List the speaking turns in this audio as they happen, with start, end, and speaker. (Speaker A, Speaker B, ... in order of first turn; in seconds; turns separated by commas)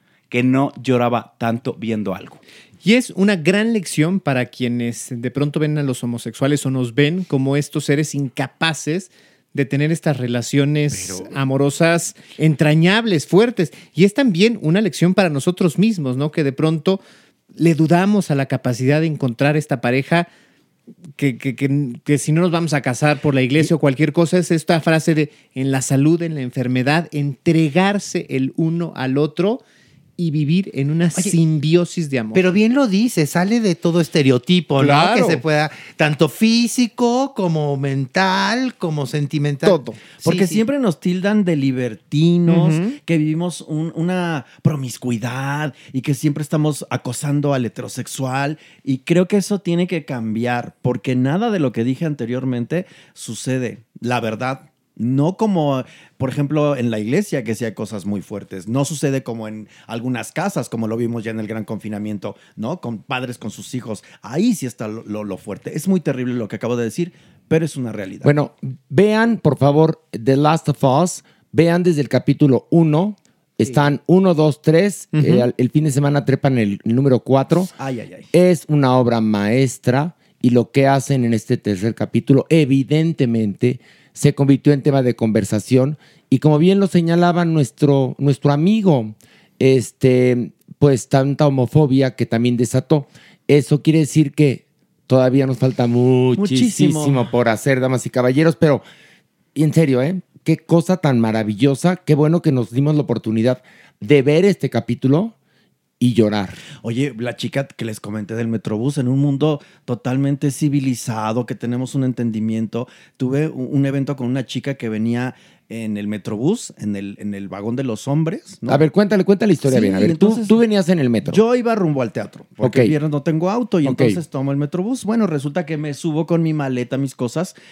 Speaker A: 0.3-2.4, Speaker B: 2.8-17.0, Speaker B: 17.6-20.3, Speaker B: 21.2-29.6, Speaker B: 30.2-32.5, Speaker C: 32.3-40.6, Speaker B: 34.8-35.4, Speaker B: 39.6-40.0, Speaker D: 40.2-68.3, Speaker B: 42.5-43.0, Speaker E: 68.2-77.7, Speaker B: 75.1-75.5, Speaker D: 77.8-78.3, Speaker E: 78.3-98.8, Speaker D: 96.4-97.3, Speaker E: 99.5-105.3, Speaker E: 106.0-106.6, Speaker D: 106.8-118.8, Speaker E: 118.7-121.4, Speaker D: 119.6-120.6, Speaker D: 121.2-127.5, Speaker E: 122.6-123.0, Speaker E: 123.8-124.2